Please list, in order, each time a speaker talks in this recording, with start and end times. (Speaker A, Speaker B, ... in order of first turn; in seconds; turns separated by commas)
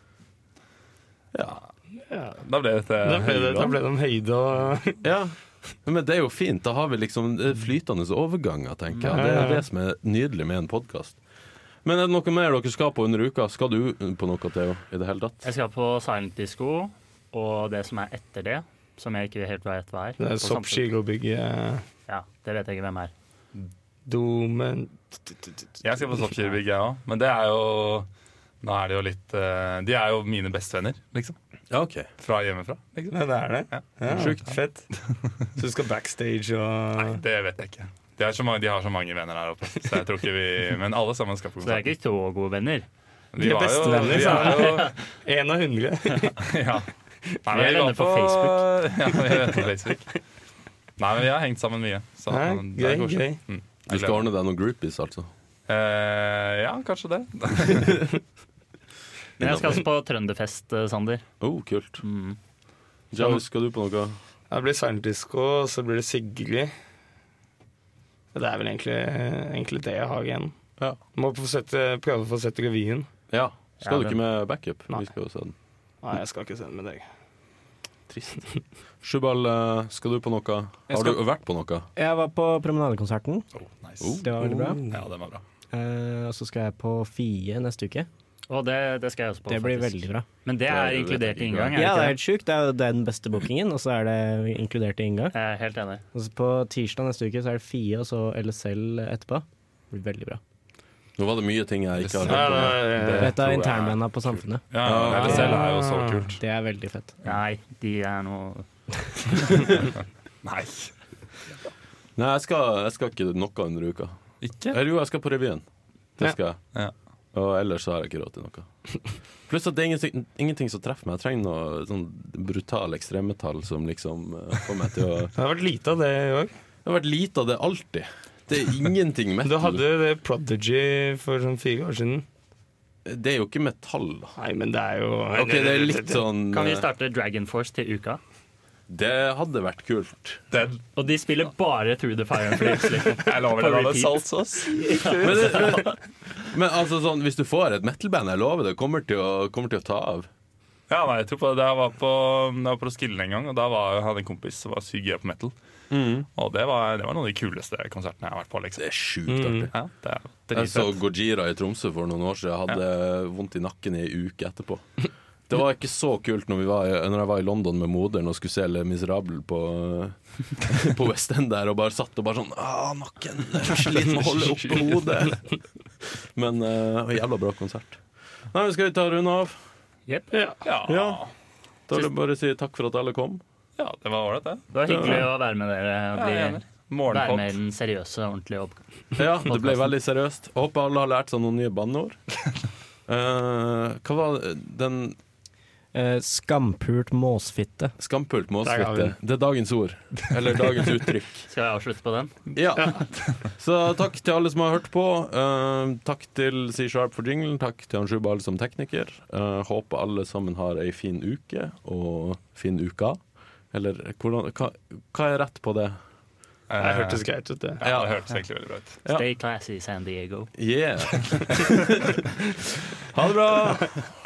Speaker A: 1.3-1.6, Speaker B: 2.1-2.4, Speaker C: 2.4-3.8, Speaker B: 3.0-5.0, Speaker A: 5.0-11.2, Speaker B: 9.1-9.6, Speaker A: 11.8-15.4, Speaker D: 15.4-20.9, Speaker B: 20.2-21.9, Speaker D: 22.1-23.1, Speaker B: 24.1-25.5, Speaker C: 25.8-28.1, Speaker C: 28.6-31.4, Speaker A: 31.7-32.1, Speaker C: 32.2-34.4, Speaker B: 33.1-34.9, Speaker A: 34.1-34.4, Speaker B: 35.5-37.2, Speaker C: 37.0-41.9, Speaker D: 41.6-42.9, Speaker C: 43.3-44.9, Speaker B: 43.4-46.5, Speaker D: 44.1-45.0, Speaker C: 46.4-46.9, Speaker C: 47.4-50.2, Speaker D: 47.5-48.6, Speaker C: 51.0-54.3, Speaker B: 52.3-53.4, Speaker A: 53.9-55.3, Speaker C: 55.7-58.1, Speaker D: 59.4-61.3, Speaker A: 59.4-59.9, Speaker A: 61.4-62.0, Speaker D: 62.0-62.4, Speaker A: 63.1-64.2, Speaker B: 64.5-66.7, Speaker B: 68.3-70.5, Speaker B: 71.2-73.1, Speaker A: 73.3-75.5, Speaker D: 73.8-74.2, Speaker B: 76.0-77.0, Speaker A: 78.1-78.4, Speaker A: 79.0-81.9, Speaker E: 80.9-81.2, Speaker E: 82.0-83.5, Speaker C: 83.6-84.2, Speaker A: 84.0-84.8, Speaker E: 84.2-84.8, Speaker C: 84.9-85.4, Speaker E: 85.7-88.1, Speaker D: 88.5-92.2, Speaker E: 89.5-90.3, Speaker A: 90.7-91.8, Speaker E: 91.8-95.3, Speaker D: 95.3-96.0, Speaker E: 96.1-100.4, Speaker A: 101.2-102.9, Speaker C: 102.0-106.4, Speaker B: 102.2-103.5, Speaker E: 103.2-105.6, Speaker A: 104.8-105.5, Speaker B: 105.2-106.4, Speaker E: 106.4-107.2, Speaker D: 107.2-108.7, Speaker C: 109.5-110.9, Speaker A: 112.2-114.2, Speaker C: 114.4-114.8, Speaker A: 114.7-115.6, Speaker A: 116.2-116.6, Speaker A: 117.3-118.7, Speaker A: 119.5-125.3, Speaker B: 125.4-126.5, Speaker A: 126.8-129.8, Speaker B: 129.4-132.2, Speaker A: 133.1-134.3, Speaker B: 134.4-136.2, Speaker A: 135.3-136.9, Speaker D: 136.5-138.2, Speaker A: 138.9-140.4, Speaker C: 140.5-140.8, Speaker D: 140.9-145.9, Speaker C: 143.1-145.8, Speaker A: 145.2-150.3, Speaker C: 150.9-155.5, Speaker A: 155.9-156.3, Speaker C: 156.4-158.9, Speaker A: 158.8-159.7, Speaker B: 159.3-159.7, Speaker C: 159.7-161.0, Speaker A: 160.5-164.8, Speaker A: 165.5-175.5, Speaker A: 176.0-178.0, Speaker A: 178.5-179.6, Speaker B: 180.3-180.6, Speaker C: 180.6-181.3, Speaker A: 180.9-181.2, Speaker A: 181.9-183.4, Speaker C: 183.8-184.7, Speaker D: 184.7-189.9, Speaker A: 184.9-185.3, Speaker C: 186.1-187.6, Speaker A: 189.2-192.2, Speaker A: 193.1-195.2, Speaker E: 195.9-197.9, Speaker A: 198.0-201.5, Speaker B: 198.6-199.1, Speaker D: 201.5-202.3, Speaker A: 202.5-213.2, Speaker A: 213.7-216.0, Speaker C: 216.7-217.2, Speaker B: 216.8-217.8, Speaker C: 217.8-219.0, Speaker A: 217.8-218.1, Speaker D: 219.1-220.5, Speaker A: 220.6-224.0, Speaker C: 221.1-221.7